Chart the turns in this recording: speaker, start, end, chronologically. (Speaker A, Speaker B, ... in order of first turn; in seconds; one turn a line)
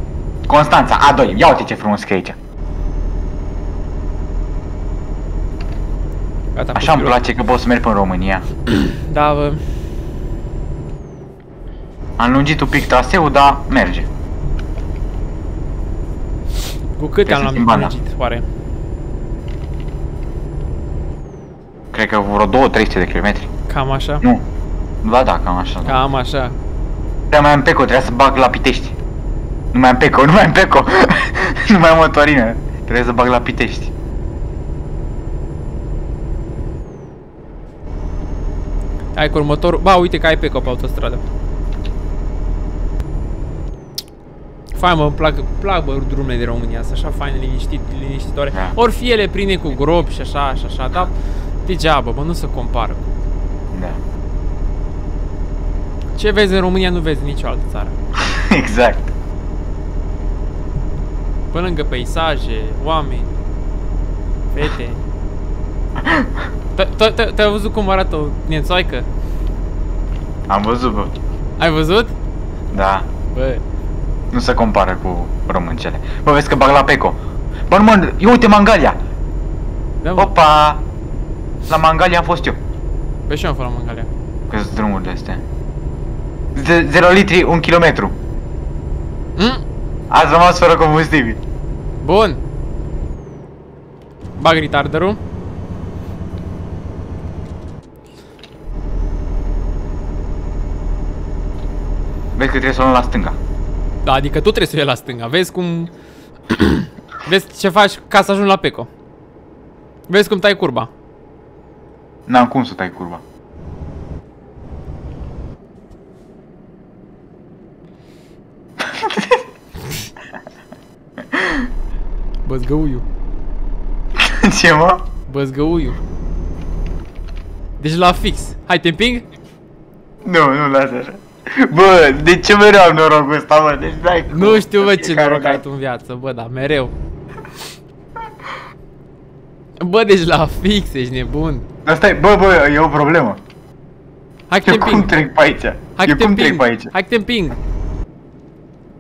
Speaker A: 0.5-2.4
Speaker B: 6.5-7.2
Speaker A: 6.7-8.5
Speaker B: 8.9-9.6
Speaker A: 12.2-14.1
Speaker B: 16.9-18.4
Speaker A: 17.3-17.9
Speaker A: 21.9-23.5
Speaker B: 23.7-24.2
Speaker A: 25.0-26.0
Speaker B: 25.9-26.6
Speaker A: 27.3-28.9
Speaker A: 29.7-33.9
Speaker B: 39.1-41.2
Speaker B: 44.7-53.1
Speaker A: 53.7-54.0
Speaker B: 56.1-57.9
Speaker A: 58.2-59.1
Speaker B: 61.5-63.4
Speaker B: 64.5-65.0
Speaker A: 66.0-66.3
Speaker B: 66.7-69.1
Speaker A: 70.5-71.1
Speaker B: 71.6-72.1
Speaker A: 72.7-73.1
Speaker B: 73.3-73.6
Speaker A: 74.3-79.0
Speaker B: 80.0-80.3
Speaker A: 80.2-80.8
Speaker A: 81.7-82.6
Speaker B: 83.3-84.1
Speaker A: 84.5-85.4
Speaker A: 86.5-88.1
Speaker B: 89.4-89.6
Speaker A: 90.1-91.4
Speaker B: 92.0-92.4
Speaker B: 94.4-95.2
Speaker A: 102.4-103.4
Speaker B: 104.0-105.9
Speaker B: 106.5-108.9
Speaker B: 110.1-110.9
Speaker A: 112.3-113.2
Speaker A: 118.8-119.4
Speaker A: 121.3-121.7
Speaker B: 122.5-123.0
Speaker A: 124.2-125.1
Speaker B: 125.3-126.0
Speaker B: 127.8-129.3
Speaker A: 130.2-135.6
Speaker B: 134.3-136.9
Speaker B: 139.8-141.6
Speaker A: 141.8-143.4
Speaker B: 144.5-145.2
Speaker A: 144.6-146.9
Speaker B: 145.9-147.6